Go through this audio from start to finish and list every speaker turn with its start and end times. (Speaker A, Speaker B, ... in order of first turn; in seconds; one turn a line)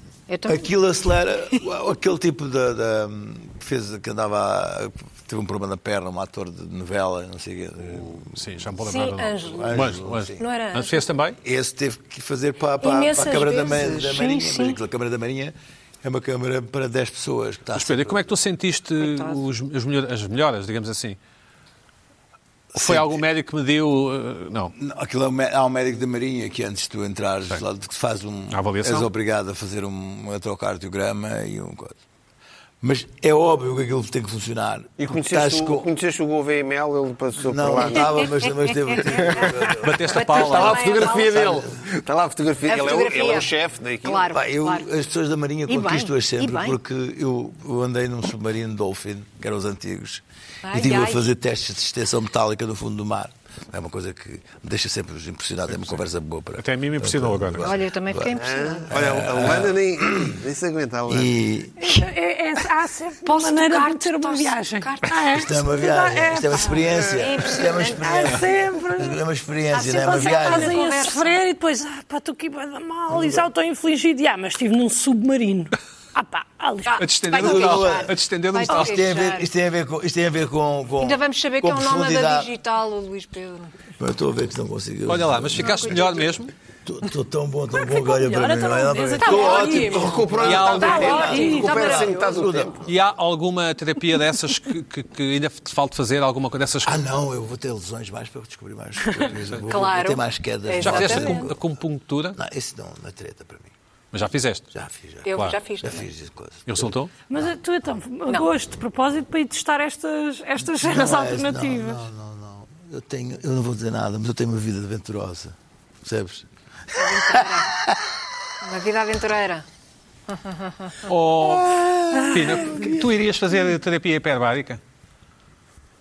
Speaker A: 0.3-0.7
Speaker B: 0.5-8.4
Speaker C: 8.1-11.4
Speaker A: 8.8-9.8
Speaker B: 9.4-10.4
Speaker A: 10.4-11.1
Speaker B: 11.4-18.3
Speaker A: 12.8-14.8
Speaker C: 17.7-21.2
Speaker A: 19.0-19.4
Speaker B: 22.7-23.2
Speaker C: 22.7-24.7
Speaker B: 24.8-32.0
Speaker C: 28.5-29.1
Speaker B: 32.8-35.9
Speaker D: 35.0-38.4
Speaker B: 37.4-40.2
Speaker A: 38.1-39.5
Speaker D: 39.0-39.8
Speaker C: 39.8-40.8
Speaker A: 40.1-41.6
Speaker D: 40.3-44.3
Speaker B: 40.9-41.8
Speaker A: 42.6-43.5
Speaker A: 44.0-44.9
Speaker B: 44.3-58.4
Speaker A: 45.7-46.8
Speaker A: 50.6-51.2
Speaker C: 56.6-57.7
Speaker A: 57.6-59.0
Speaker D: 58.4-61.3
Speaker B: 58.9-60.4
Speaker B: 61.1-61.8
Speaker E: 61.8-66.8
Speaker A: 61.8-62.1
Speaker A: 63.2-65.5
Speaker B: 65.3-70.8
Speaker A: 67.0-68.5
Speaker E: 67.9-69.2
Speaker A: 69.7-71.4
Speaker E: 69.9-77.0
Speaker B: 73.1-73.5
Speaker A: 76.9-79.5
Speaker C: 77.0-79.1
Speaker B: 77.3-82.5
Speaker A: 81.0-83.7
Speaker B: 84.0-86.2
Speaker C: 85.1-86.5
Speaker A: 85.6-86.3
Speaker B: 86.8-92.9
Speaker E: 87.8-90.2
Speaker A: 89.2-92.5
Speaker D: 89.5-92.9
Speaker C: 90.4-91.3
Speaker E: 90.8-91.8
Speaker C: 92.8-97.0
Speaker B: 96.8-101.6
Speaker A: 99.7-101.5
Speaker C: 100.8-102.4
Speaker B: 102.3-103.7
Speaker C: 104.1-104.7
Speaker B: 104.7-107.5
Speaker A: 105.2-106.1
Speaker C: 106.7-107.1
Speaker E: 107.3-112.0
Speaker B: 110.7-118.0
Speaker A: 117.0-117.8
Speaker A: 118.6-119.7
Speaker A: 120.3-121.0
Speaker C: 121.1-124.8
Speaker B: 121.3-123.1